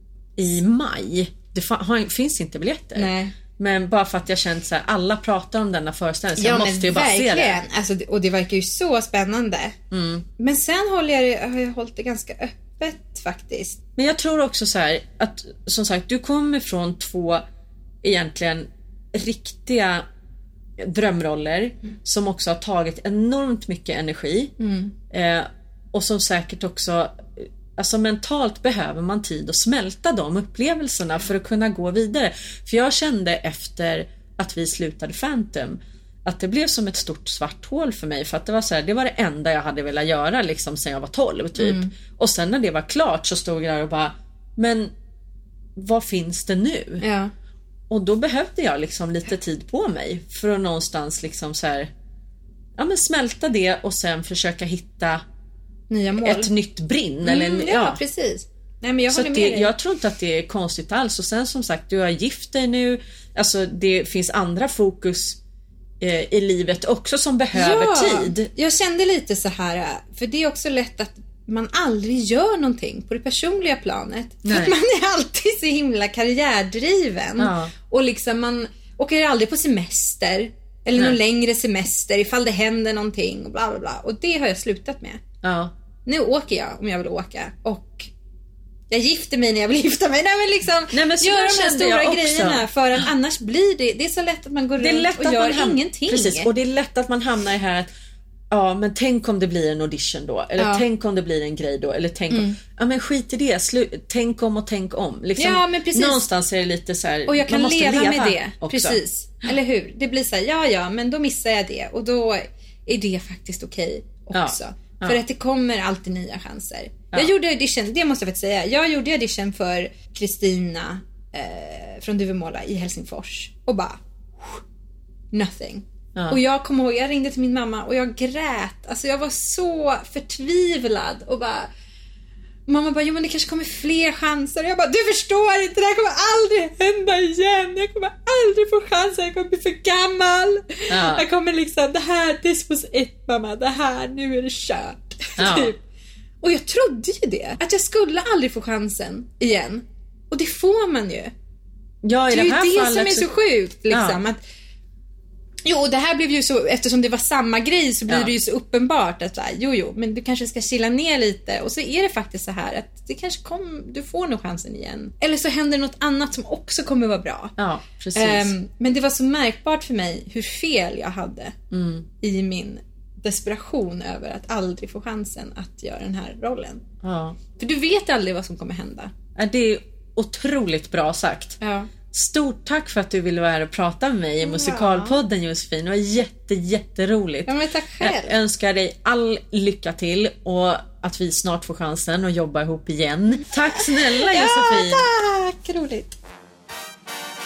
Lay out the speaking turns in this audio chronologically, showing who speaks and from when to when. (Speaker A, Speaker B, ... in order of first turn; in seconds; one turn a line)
Speaker A: 0.3-7.6
Speaker B: 2.9-3.3
Speaker B: 6.4-9.8
Speaker A: 9.9-10.2
Speaker B: 10.4-13.8
Speaker A: 14.0-17.4
Speaker A: 18.0-20.1
Speaker A: 20.8-24.5
Speaker B: 24.6-24.9
Speaker A: 25.1-44.9
Speaker B: 41.6-41.9
Speaker A: 45.8-47.0
Speaker B: 47.0-47.3
Speaker A: 47.9-51.9
Speaker A: 52.8-55.2
Speaker B: 55.9-56.5
Speaker A: 56.2-58.0
Speaker B: 57.2-59.7
Speaker A: 59.1-65.4
Speaker A: 66.0-68.5
Speaker B: 67.5-85.2
Speaker A: 74.4-74.7
Speaker A: 77.4-77.7
Speaker A: 85.4-85.7
Speaker B: 86.0-88.1
Speaker B: 88.9-96.5
Speaker A: 90.9-93.1
Speaker A: 94.8-97.9
Speaker A: 98.5-109.0
Speaker B: 100.6-100.8
Speaker B: 102.3-102.6
Speaker B: 105.4-106.3
Speaker B: 107.3-124.6
Speaker A: 114.3-115.2
Speaker B: 125.3-131.7
Speaker B: 132.7-145.8
Speaker A: 140.9-141.2
Speaker A: 145.4-145.7
Speaker B: 146.4-151.3
Speaker A: 152.0-153.3
Speaker B: 152.3-154.4
Speaker A: 153.9-154.2
Speaker B: 155.6-167.5
Speaker A: 167.6-168.5
Speaker B: 168.2-171.6
Speaker A: 171.7-172.1
Speaker B: 172.2-176.8
Speaker A: 177.0-177.4
Speaker B: 177.6-179.1
Speaker A: 179.3-181.6
Speaker B: 181.6-181.9
Speaker A: 182.1-195.1
Speaker B: 184.4-185.2
Speaker B: 187.5-188.3
Speaker B: 193.7-196.2